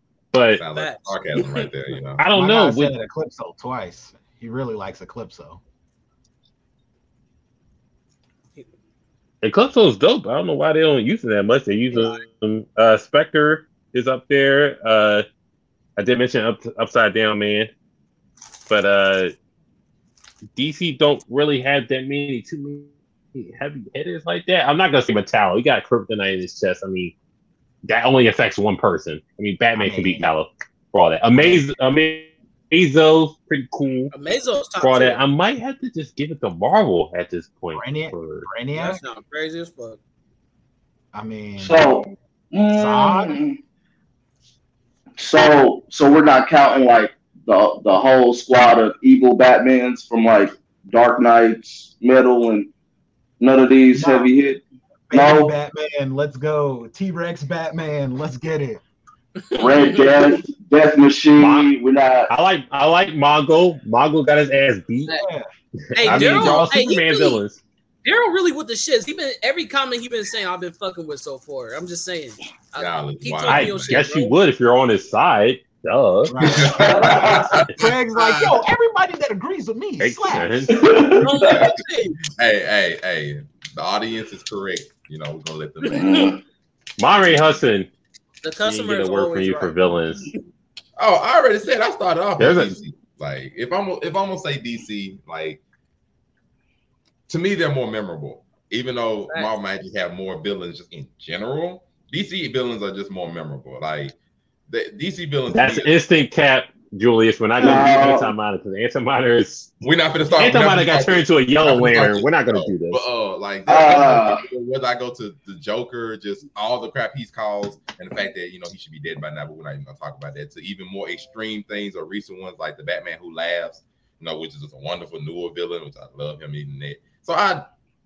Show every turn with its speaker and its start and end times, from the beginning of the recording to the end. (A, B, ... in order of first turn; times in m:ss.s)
0:00.3-0:00.6 A
0:00.6-0:02.2 B
0:00.7-0:01.1 C
0:02.2-0:03.0 A
0:02.3-0:05.6 D
0:09.4-0:15.2 A
0:11.9-0:12.2 C
0:16.0-0:17.7 A
0:18.7-0:19.3 A
0:20.5-0:27.1 A
0:27.8-0:34.1 A
0:29.8-0:30.2 D
0:31.3-0:31.6 D
0:34.1-0:35.2 C
0:34.8-0:38.5 A
0:37.7-0:39.0 D
0:38.7-0:40.0 C
0:41.1-0:42.0 D
0:41.6-0:43.6 E
0:42.7-0:43.4 D
0:45.2-0:52.7 E
0:53.4-0:54.6 E
0:53.9-0:54.3 D
0:55.1-0:58.8 D
0:55.1-0:55.5 E
0:59.5-1:00.1 C
0:59.6-1:02.3 E
1:01.4-1:01.7 A
1:02.3-1:05.1 A
1:05.1-1:05.5 D
1:05.9-1:07.6 A
1:06.0-1:07.4 C
1:06.0-1:06.6 D
1:08.0-1:14.3 C
1:12.8-1:14.0 B
1:13.5-1:16.6 A
1:16.2-1:20.6 D
1:16.4-1:18.6 B
1:16.7-1:17.5 E
1:20.0-1:20.9 A
1:20.7-1:21.7 E
1:21.2-1:22.2 C
1:21.4-1:26.2 B
1:25.8-1:26.3 C
1:25.9-1:26.4 E
1:27.0-1:27.9 A
1:28.4-1:29.8 C
1:28.6-1:30.3 A
1:31.0-1:35.6 B
1:32.4-1:32.8 A
1:37.3-1:44.1 B
1:44.7-1:45.9 B
1:45.5-1:49.8 A
1:47.6-1:48.3 E
1:49.8-2:07.7 B
1:50.3-1:53.0 A
1:53.7-1:54.4 E